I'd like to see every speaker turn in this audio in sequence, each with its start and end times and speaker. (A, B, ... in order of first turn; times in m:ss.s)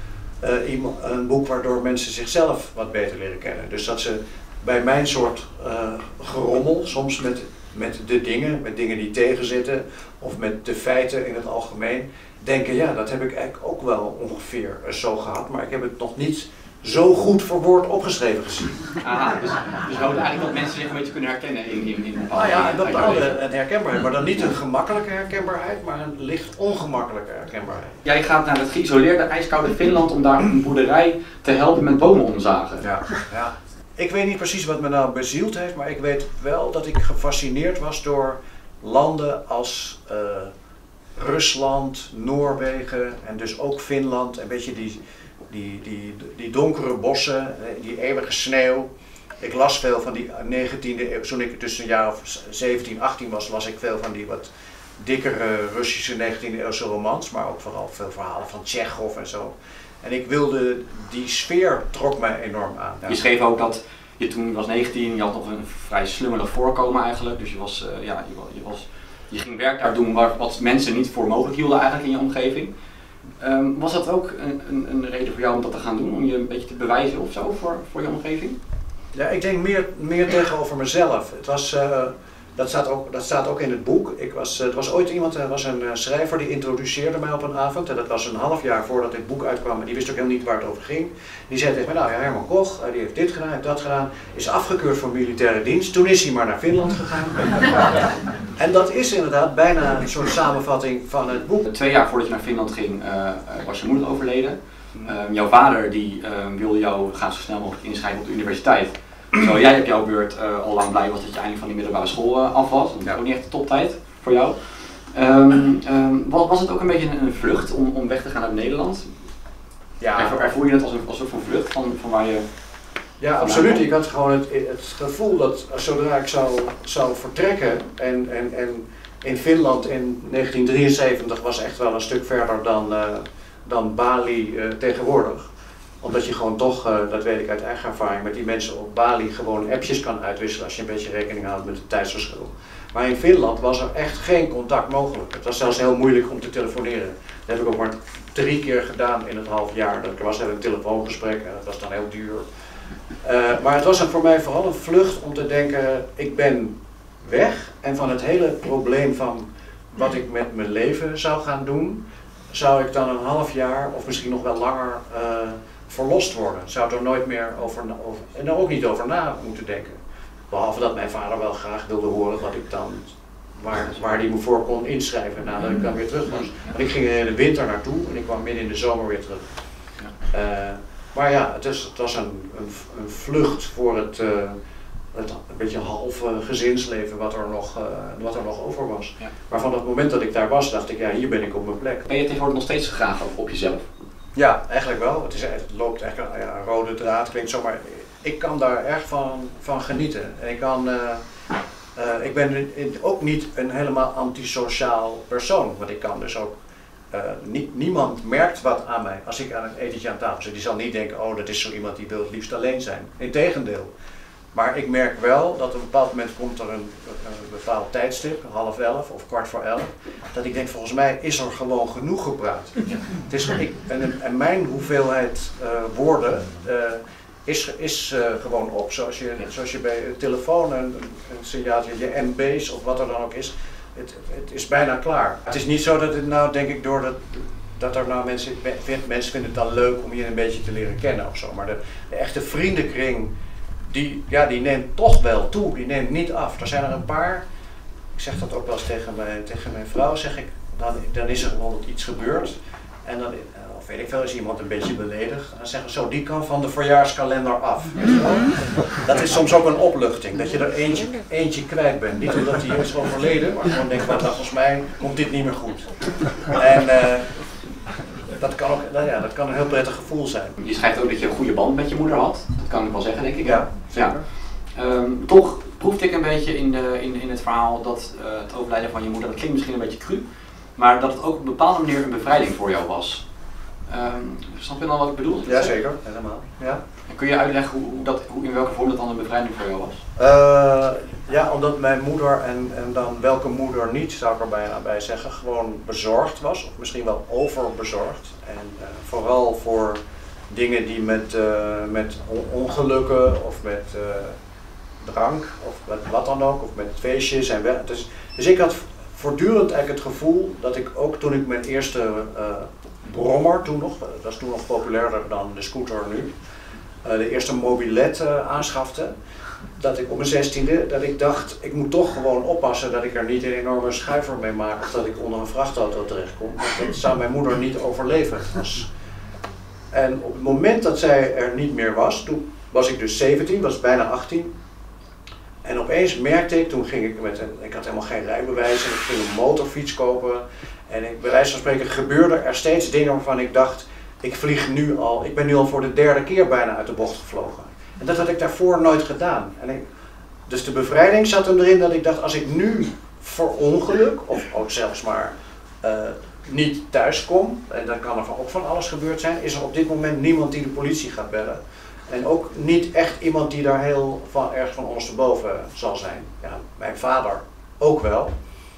0:00.4-0:18.8 A
0:19.0-0:23.4 B
0:22.3-0:28.0 A
0:28.0-0:32.9 B
0:32.8-0:40.5 A
0:41.2-0:48.9 A
0:49.4-1:03.2 A
1:03.1-1:12.7 B
1:13.4-1:18.6 B
1:19.1-1:37.7 A
1:38.6-1:41.7 A
1:41.6-1:59.1 B
2:00.0-2:00.5 A
2:00.2-2:02.4 B
2:03.2-2:15.5 A
2:03.4-2:03.8 B
2:16.0-2:32.4 A
2:33.2-2:50.0 A
2:50.5-2:59.5 A
3:00.3-3:04.6 A
3:05.1-3:12.0 A
3:12.1-3:13.9 B
3:14.4-3:21.2 A
3:22.0-3:26.5 A
3:27.1-3:33.9 A
3:34.5-4:03.3 A
4:03.9-4:07.4 A
4:08.2-4:27.5 A
4:28.4-4:30.6 A
4:30.6-4:40.2 B
4:33.4-4:34.0 A
4:40.8-4:43.3 B
4:43.9-4:45.7 B
4:45.4-4:46.8 A
4:47.1-4:50.0 B
4:50.2-5:04.4 A
5:05.0-5:16.3 A
5:17.0-5:19.1 A
5:19.8-5:28.9 A
5:29.9-5:34.5 A
5:35.6-5:49.8 A
5:50.5-6:08.3 A